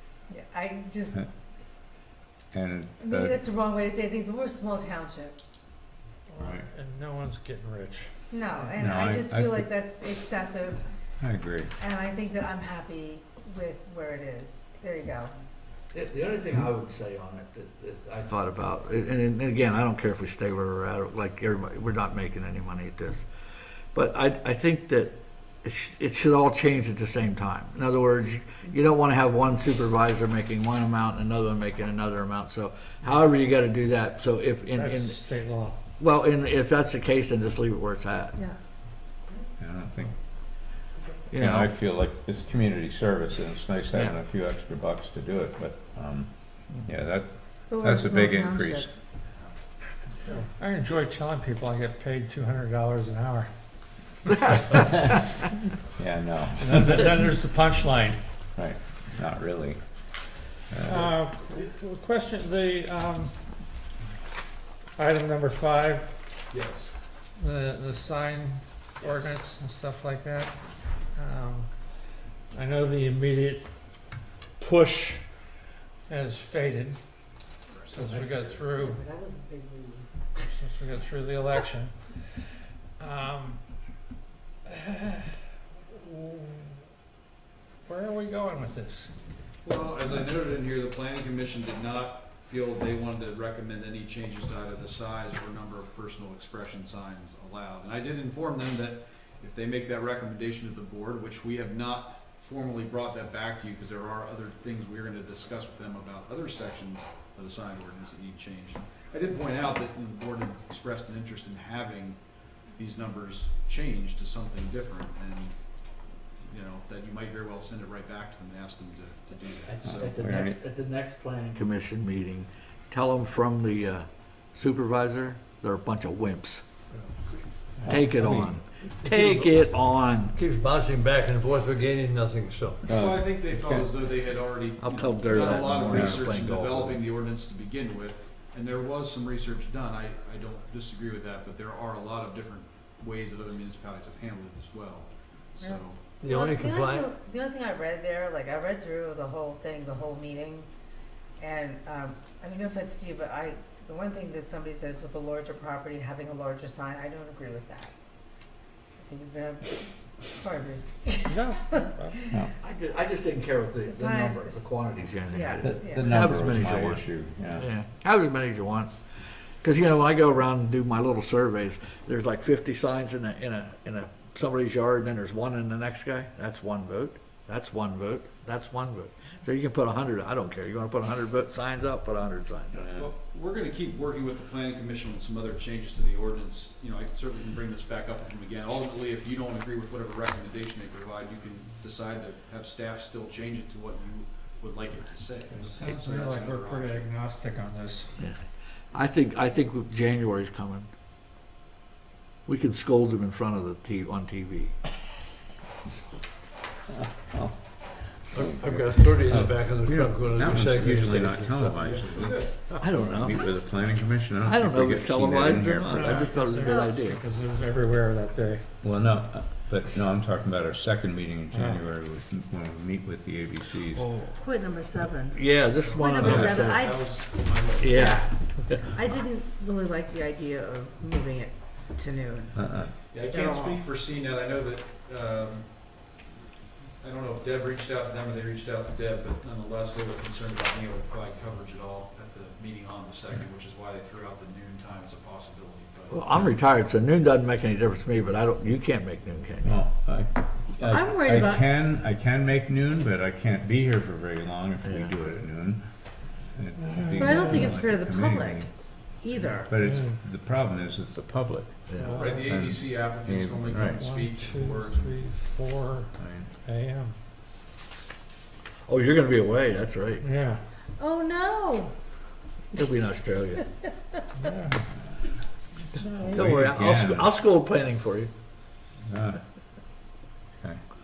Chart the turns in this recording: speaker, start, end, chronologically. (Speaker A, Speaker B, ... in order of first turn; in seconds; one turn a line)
Speaker A: 0.3-1.2
Speaker B: 2.5-3.4
Speaker A: 3.0-5.4
Speaker C: 6.3-8.1
Speaker B: 6.4-6.7
Speaker A: 8.3-10.8
Speaker B: 8.8-9.7
Speaker B: 11.2-11.7
Speaker A: 11.8-15.3
Speaker D: 15.9-23.3
Speaker D: 23.9-35.3
Speaker C: 34.7-35.8
Speaker D: 36.0-38.4
Speaker B: 39.6-40.2
Speaker D: 41.3-41.7
Speaker B: 41.3-48.9
Speaker A: 47.7-48.9
Speaker C: 50.2-53.5
Speaker B: 54.8-55.0
Speaker B: 56.0-57.2
Speaker C: 56.6-58.2
Speaker B: 58.5-59.8
Speaker B: 60.7-61.1
Speaker C: 60.9-63.3
Speaker C: 65.0-66.1
Speaker E: 66.5-66.9
Speaker C: 67.4-70.5
Speaker C: 71.1-71.7
Speaker C: 72.5-73.7
Speaker C: 74.6-75.2
Speaker C: 76.1-77.0
Speaker E: 77.7-78.6
Speaker C: 77.9-79.0
Speaker A: 78.7-80.1
Speaker C: 80.5-82.0
Speaker C: 83.0-83.6
Speaker C: 84.7-85.3
Speaker C: 85.9-86.8
Speaker C: 87.8-89.1
Speaker E: 89.6-112.2
Speaker E: 112.8-115.6
Speaker E: 116.5-120.1
Speaker D: 119.7-126.6
Speaker B: 119.9-120.6
Speaker E: 127.0-127.3
Speaker B: 127.8-128.5
Speaker D: 127.8-130.3
Speaker F: 129.0-129.5
Speaker F: 130.3-132.8
Speaker B: 132.8-133.9
Speaker E: 132.9-146.0
Speaker D: 134.8-137.0
Speaker B: 135.9-136.2
Speaker A: 145.6-150.7
Speaker F: 146.2-147.1
Speaker A: 151.4-157.9
Speaker A: 159.0-161.8
Speaker C: 161.3-162.3
Speaker D: 162.6-168.9
Speaker A: 163.8-164.6
Speaker A: 165.3-166.1
Speaker B: 165.6-167.6
Speaker D: 169.6-182.8
Speaker B: 182.8-183.1
Speaker E: 182.9-197.1
Speaker C: 195.5-198.1
Speaker D: 198.9-200.9
Speaker D: 202.4-204.7
Speaker B: 206.9-216.3
Speaker F: 208.3-211.8
Speaker E: 211.8-212.5
Speaker D: 212.8-213.3
Speaker D: 214.4-217.2
Speaker C: 215.9-218.7
Speaker A: 216.6-216.9
Speaker B: 218.8-224.1
Speaker C: 221.5-221.8
Speaker D: 223.9-224.4
Speaker A: 224.3-227.1
Speaker D: 225.3-227.1
Speaker E: 225.7-228.3
Speaker B: 226.2-226.6
Speaker D: 227.8-229.0
Speaker A: 227.9-228.2
Speaker A: 228.9-233.8
Speaker B: 232.5-232.9
Speaker E: 233.1-235.7
Speaker E: 237.0-246.2
Speaker D: 246.1-249.8
Speaker B: 249.6-258.7
Speaker A: 250.8-251.6
Speaker D: 254.8-255.1
Speaker C: 256.8-257.7
Speaker A: 257.2-259.7
Speaker B: 259.6-264.0
Speaker C: 259.8-260.1
Speaker D: 261.9-262.2
Speaker C: 262.0-262.4
Speaker E: 262.1-265.3
Speaker C: 263.9-266.1
Speaker B: 266.1-266.5
Speaker C: 266.6-267.1
Speaker D: 268.9-270.2
Speaker C: 270.2-270.6
Speaker A: 271.0-271.9
Speaker D: 272.7-273.6
Speaker C: 274.4-274.8
Speaker C: 275.9-276.6
Speaker D: 276.2-278.3
Speaker B: 276.3-277.3
Speaker B: 279.1-279.4